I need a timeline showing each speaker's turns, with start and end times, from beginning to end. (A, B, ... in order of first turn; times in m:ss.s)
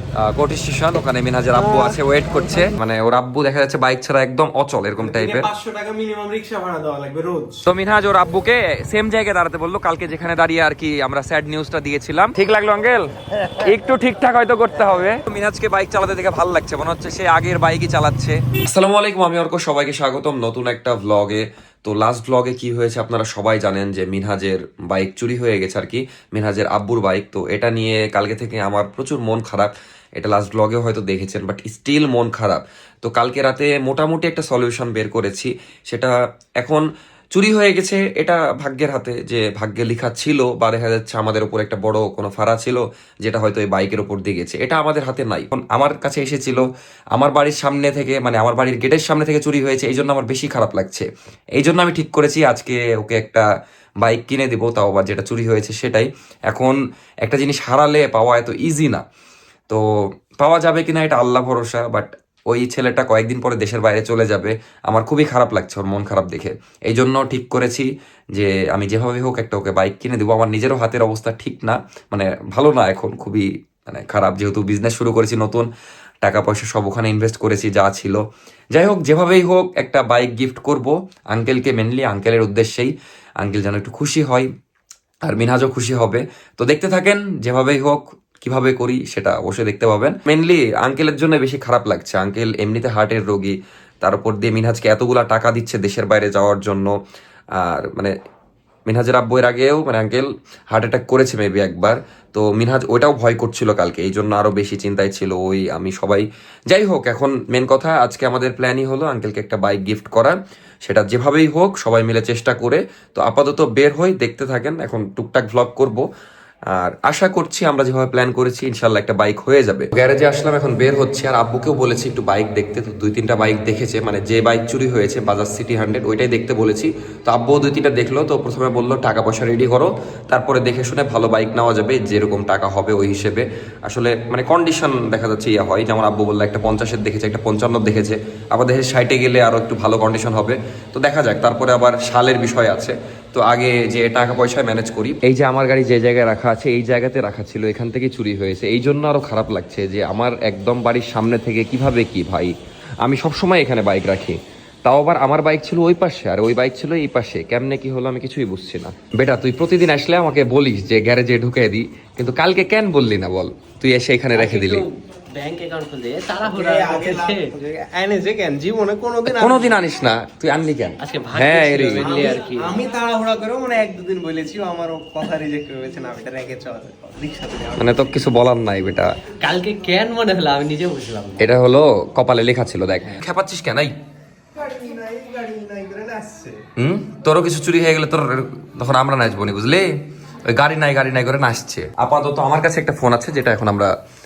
0:00.2-0:05.5 A
0:01.5-0:02.7 B
0:05.0-0:07.6 B
0:07.6-0:36.8 A
0:37.3-0:46.6 A
0:47.2-0:53.4 A
0:54.0-0:59.0 A
1:00.4-1:15.7 A
1:16.2-1:18.2 A
1:18.7-1:24.5 A
1:25.2-1:36.9 A
1:37.6-1:38.1 A
1:38.9-1:56.0 A
1:56.7-2:44.8 A
2:44.3-2:47.5 C
2:46.5-2:49.8 B
2:49.2-2:52.2 A
2:51.0-2:52.8 C
2:52.0-2:58.2 B
2:57.8-2:59.1 A
2:59.4-3:01.5 C
3:01.4-3:03.9 A
3:04.6-3:06.6 B
3:06.8-3:09.9 A
3:10.4-3:13.9 A